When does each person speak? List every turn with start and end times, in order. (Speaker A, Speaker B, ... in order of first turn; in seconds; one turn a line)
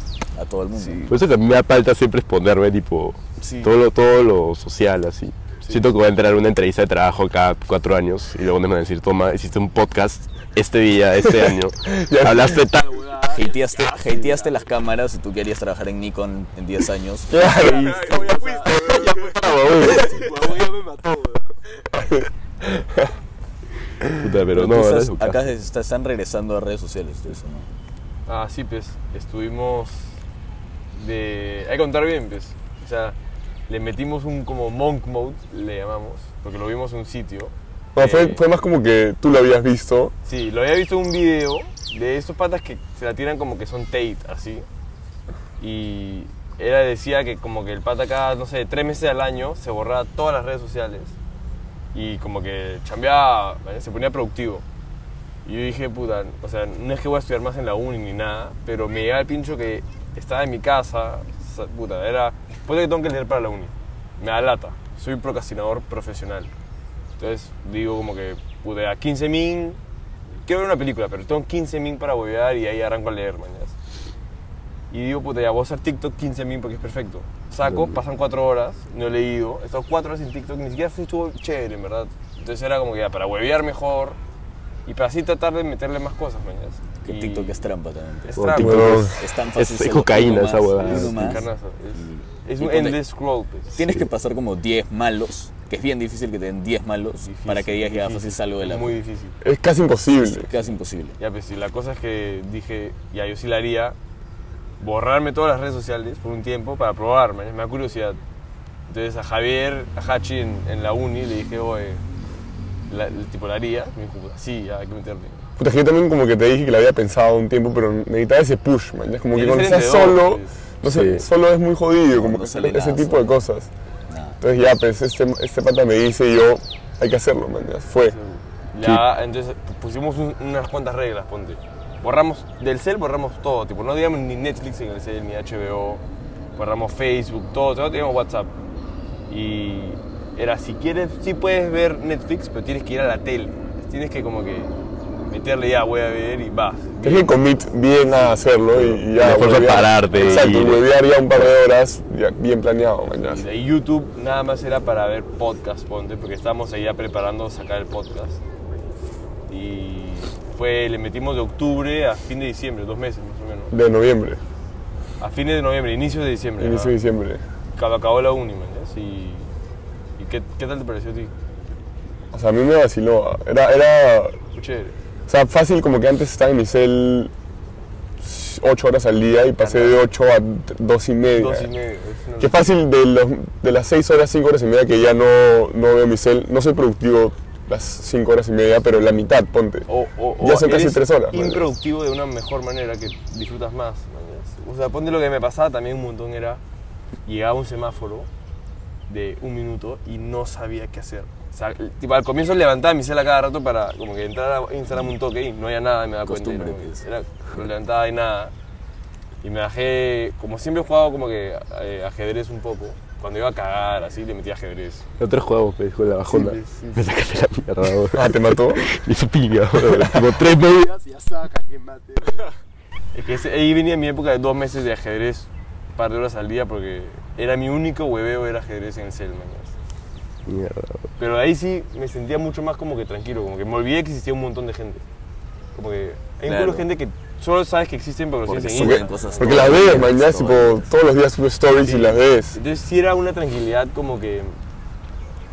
Speaker A: 0.3-1.1
Speaker B: 0.7-1.1
Speaker C: 1.1-13.5
Speaker B: 3.4-3.7
Speaker D: 11.2-12.7
Speaker B: 12.9-14.6
Speaker A: 13.3-17.4
Speaker D: 17.3-20.3
Speaker B: 17.5-21.6
Speaker A: 19.6-20.2
Speaker D: 21.9-23.1
Speaker C: 24.1-25.4
Speaker A: 24.5-27.7
Speaker B: 28.3-30.2
Speaker B: 30.9-33.1
Speaker B: 33.7-38.4
Speaker D: 37.9-40.1
Speaker B: 40.2-44.6
Speaker B: 45.6-51.1
Speaker B: 51.9-54.6
Speaker B: 55.4-66.5
Speaker B: 67.2-69.8
Speaker B: 70.4-73.7
Speaker B: 74.9-84.2
Speaker C: 77.6-78.0
Speaker B: 84.8-87.6
Speaker A: 87.0-93.0
Speaker B: 88.3-89.1
Speaker C: 88.3-91.4
Speaker D: 88.6-89.2
Speaker B: 90.8-93.8
Speaker A: 93.7-99.0
Speaker B: 97.2-99.3
Speaker D: 99.4-100.5
Speaker A: 100.2-101.2
Speaker B: 101.2-104.0
Speaker B: 104.8-108.2
Speaker B: 108.9-112.0
Speaker B: 112.9-115.5
Speaker D: 115.6-123.7
Speaker B: 119.3-120.5
Speaker C: 120.8-121.3
Speaker A: 122.1-123.3
Speaker A: 124.1-124.4
Speaker D: 124.4-128.2
Speaker B: 128.1-136.0
Speaker B: 136.6-138.5
Speaker B: 139.3-147.5
Speaker D: 147.0-153.4
Speaker C: 148.7-150.8
Speaker B: 150.2-150.5
Speaker B: 153.2-158.4
Speaker B: 159.5-163.7
Speaker D: 163.7-164.4
Speaker B: 165.2-167.0
Speaker D: 166.6-167.4
Speaker B: 167.7-169.5
Speaker B: 170.2-171.3
Speaker D: 172.3-174.4
Speaker B: 174.5-174.9
Speaker D: 175.3-177.3
Speaker D: 178.2-181.7
Speaker B: 179.6-180.0
Speaker B: 181.3-182.7
Speaker D: 182.4-189.9
Speaker B: 189.9-196.6
Speaker D: 190.4-191.7
Speaker B: 197.2-198.3
Speaker B: 199.1-208.5
Speaker A: 206.2-207.0
Speaker B: 209.4-215.1
Speaker C: 215.2-221.1
Speaker B: 216.3-217.1
Speaker D: 218.1-218.8
Speaker D: 219.9-220.3
Speaker B: 221.1-222.5
Speaker B: 223.1-229.7
Speaker C: 230.5-231.1
Speaker B: 231.2-235.0
Speaker B: 235.7-240.1
Speaker A: 236.4-236.9
Speaker A: 238.4-240.9
Speaker D: 238.8-242.6
Speaker B: 241.8-244.6